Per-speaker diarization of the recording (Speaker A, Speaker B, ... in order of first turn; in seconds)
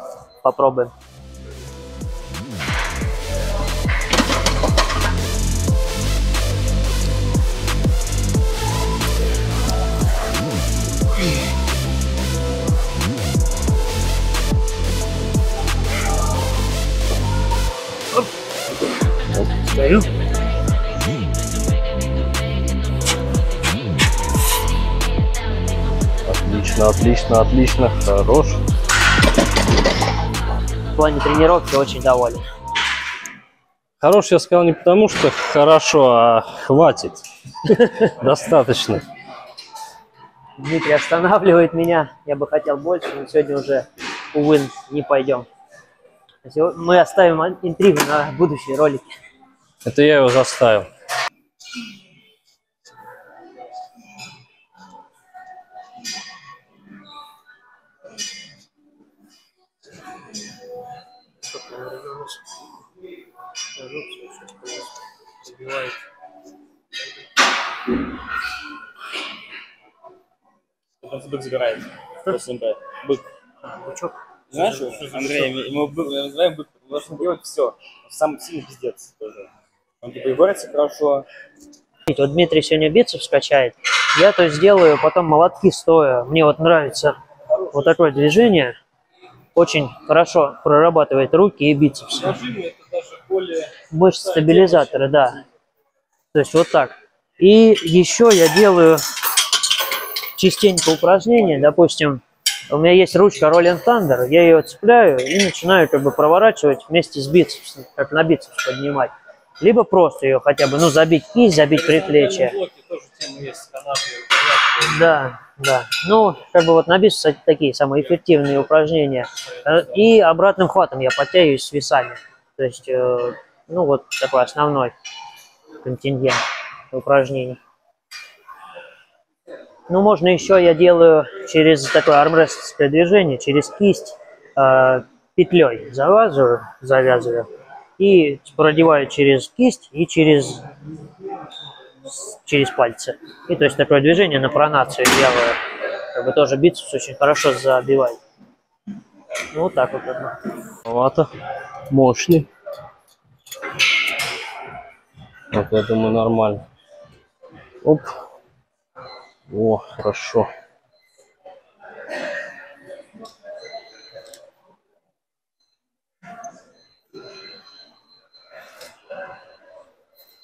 Speaker A: 0.4-0.9, 19.6-20.1, 31.0-32.4, 40.6-45.5, 46.5-49.1, 61.4-62.4, 63.8-64.9, 65.4-66.0, 73.8-75.4, 82.1-87.2, 87.7-88.8, 89.6-92.3, 93.9-95.4, 96.3-99.0, 100.4-112.6, 114.8-124.9, 125.8-127.6, 129.9-137.5, 138.0-140.7, 142.1-145.6, 146.1-148.2, 149.5-150.3
Speaker B: 26.2-28.6, 34.0-39.0, 49.8-50.9, 92.2-95.0, 111.7-115.1, 150.9-151.3, 151.9-152.5, 155.5-156.7, 157.8-158.2, 159.5-160.5
Speaker C: 71.0-73.2, 74.5-79.5, 80.0-81.3